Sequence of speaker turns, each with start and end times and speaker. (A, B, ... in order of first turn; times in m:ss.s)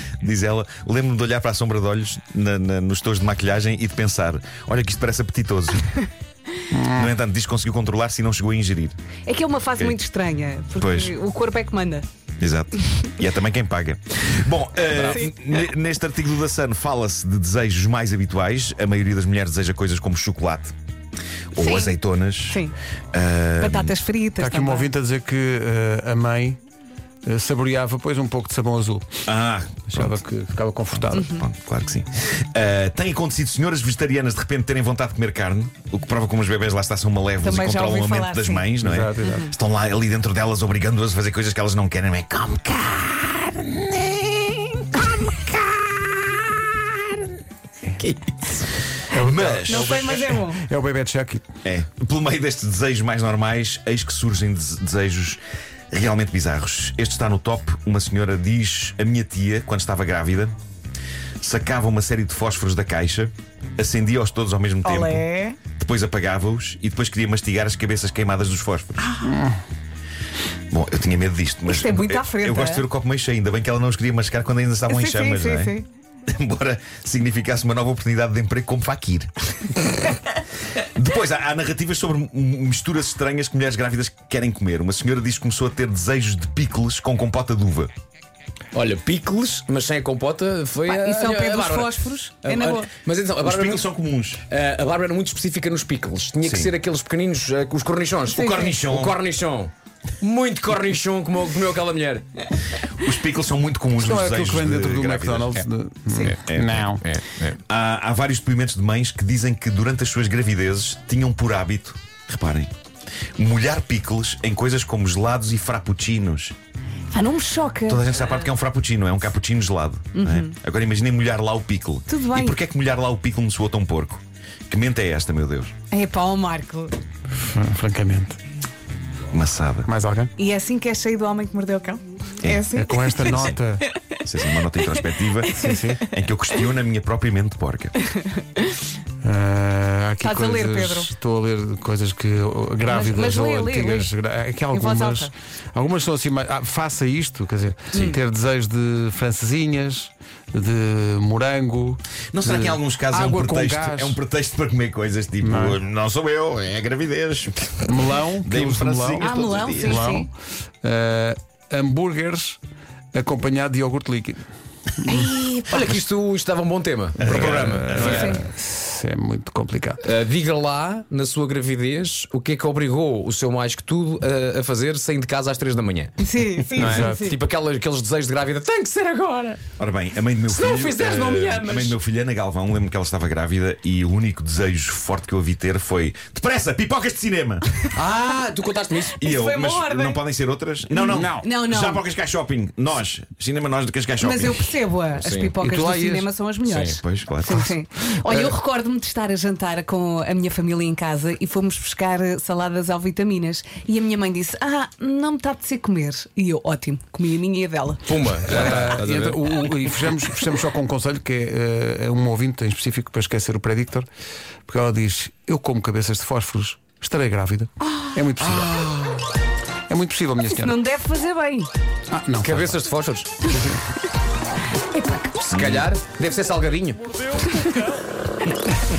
0:00.2-0:06.0 A
0:06.7-0:07.1 B
0:06.8-0:09.0 A
0:09.3-0:12.1 C
0:10.8-0:11.1 A
0:12.4-0:20.7 A
0:14.9-0:15.2 D
0:15.1-0:15.3 C
0:21.5-0:22.6 A
0:21.6-0:21.9 C
0:23.1-0:24.0 A
0:23.6-0:24.9 C
0:24.4-0:26.6 B
0:27.2-0:29.1 B
0:29.3-0:30.2 A
0:29.9-0:31.3 B
0:30.9-0:44.4 A
0:31.1-0:31.4 C
0:37.4-0:38.7 C
0:38.8-0:39.5 B
0:39.2-0:39.5 C
0:45.0-0:46.3 A
0:48.0-0:48.4 D
0:49.1-0:51.4 B
0:49.1-0:50.2 A
0:49.7-0:50.7 C
0:51.6-0:55.4 A
0:55.9-1:00.5 A
1:01.4-1:09.1 A
1:04.8-1:05.6 C
1:09.3-1:09.6 B
1:10.7-1:15.8 A
1:11.7-1:12.8 C
1:14.9-1:15.9 C
1:16.3-1:19.8 A
1:20.8-1:27.9 A
1:28.7-1:33.9 D
1:30.9-1:32.9 C
1:33.4-1:34.4 A
1:34.5-1:42.5 D
1:36.4-1:36.7 A
1:38.3-1:39.2 A
1:38.4-1:38.8 C
1:43.0-1:45.6 A
1:44.0-1:47.0 B
1:46.1-1:46.3 C
1:46.2-1:47.6 D
1:46.5-1:46.9 A
1:47.7-1:52.7 A
1:53.4-1:56.5 A
1:57.1-1:58.1 C
1:57.9-2:05.7 A
2:00.1-2:00.5 C
2:02.1-2:02.6 C
2:05.9-2:06.9 C
2:07.4-2:08.4 B
2:09.3-2:09.9 A
2:09.9-2:10.3 B
2:10.4-2:14.2 C
2:12.8-2:13.8 B
2:13.2-2:13.6 A
2:14.2-2:18.0 A
2:14.8-2:15.8 C
2:15.5-2:16.0 B
2:18.0-2:18.8 C
2:19.2-2:34.2 B
2:20.2-2:21.1 C
2:22.8-2:24.1 C
2:24.7-2:25.3 C
2:32.3-2:40.1 A
2:35.4-2:35.8 B
2:37.9-2:40.3 B
2:39.2-2:40.3 C
2:40.8-2:42.6 B
2:43.1-2:44.4 B
2:45.0-2:45.3 B
2:45.1-2:45.7 C
2:45.7-2:48.4 D
2:45.7-2:46.0 A
2:47.2-2:48.2 A
2:47.2-2:50.0 B
2:48.0-2:48.4 C
2:50.0-2:56.2 D
2:56.2-2:57.4 C
2:56.8-2:59.6 D
2:56.8-2:57.2 B
2:59.8-3:07.7 A
3:00.5-3:02.0 D
3:08.0-3:09.2 D
3:09.2-3:10.2 C
3:09.2-3:14.8 A
3:11.0-3:12.0 C
3:11.0-3:11.5 B
3:14.2-3:28.9 C
3:15.1-3:15.5 D
3:15.6-3:16.3 B
3:16.6-3:17.0 D
3:17.0-3:17.7 A
3:28.1-3:29.8 D
3:28.5-3:34.1 B
3:34.7-3:38.8 B
3:37.9-3:38.2 C
3:38.4-3:39.2 D
3:39.9-3:40.8 B
3:40.5-3:41.7 C
3:42.1-3:42.7 B
3:42.4-3:43.5 D
3:43.5-3:43.8 B
3:44.9-3:45.5 C
3:45.4-3:47.5 D
3:45.5-3:45.9 A
3:47.5-3:47.7 C